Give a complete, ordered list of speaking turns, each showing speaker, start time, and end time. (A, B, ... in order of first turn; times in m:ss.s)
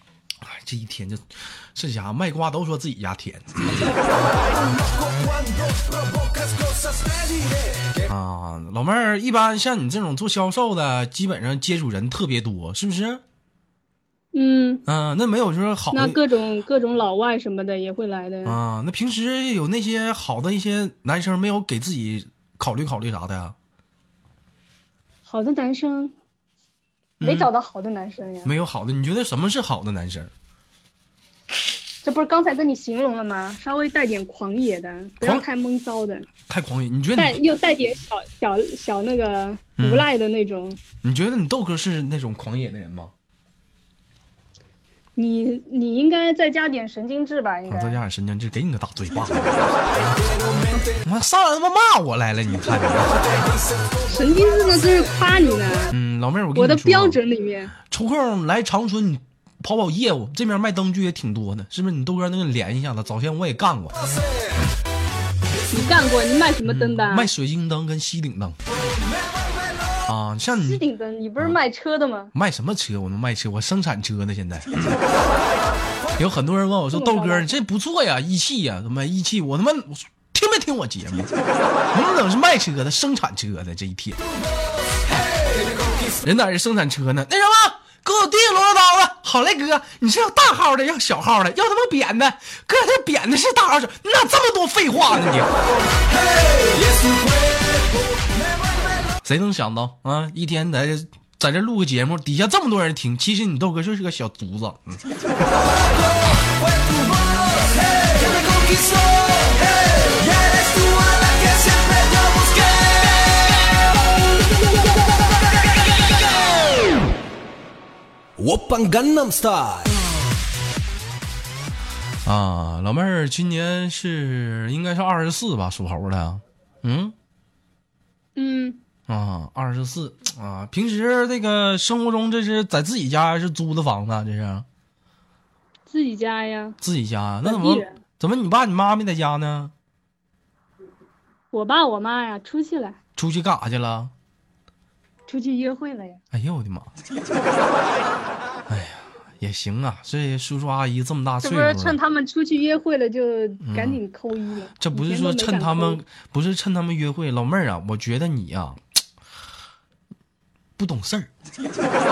0:00.4-0:03.9 A
0:04.1-0:08.1 B
0:08.1-0:13.2 A
0:14.3-0:14.8 C
0:14.8-0:16.2 A
0:15.9-0:18.6 C
0:18.4-0:23.5 A
0:25.3-0:26.1 C
0:27.2-0:27.5 A
0:27.2-0:28.5 C
0:28.4-0:30.3 A
0:32.0-0:36.3 C
0:36.5-0:37.4 A
0:37.2-0:40.8 C
0:39.8-0:40.1 A
0:41.0-0:43.1 A
0:45.2-0:48.0 C
0:47.7-0:49.8 A
0:50.1-0:51.0 B
0:51.0-0:53.3 A
0:53.2-0:54.9 B
0:54.1-0:55.9 C
0:55.9-0:57.2 A
0:56.5-0:57.7 C
0:57.8-1:03.9 A
1:05.7-1:07.3 C
1:06.6-1:08.6 A
1:09.1-1:09.7 B
1:10.1-1:10.8 A
1:10.6-1:12.3 C
1:12.3-1:15.0 A
1:16.2-1:21.3 A
1:16.9-1:17.5 C
1:21.9-1:24.2 A
1:25.3-1:26.1 B
1:26.2-1:35.5 A
1:35.9-1:39.1 B
1:39.2-1:45.0 A
1:45.5-1:53.7 B
1:58.4-2:00.0 B
2:02.2-2:07.1 A
2:08.4-2:08.8 C
2:09.1-2:14.6 A
2:15.9-2:16.8 C
2:16.8-2:19.7 A
2:17.4-2:18.0 C
2:21.5-2:23.0 C
2:23.2-2:24.1 A
2:25.3-2:26.2 C
2:26.3-2:26.9 A
2:28.7-2:32.0 A
2:31.4-2:36.0 C
2:33.6-2:34.0 A
2:34.8-2:38.8 A
2:40.8-2:41.3 A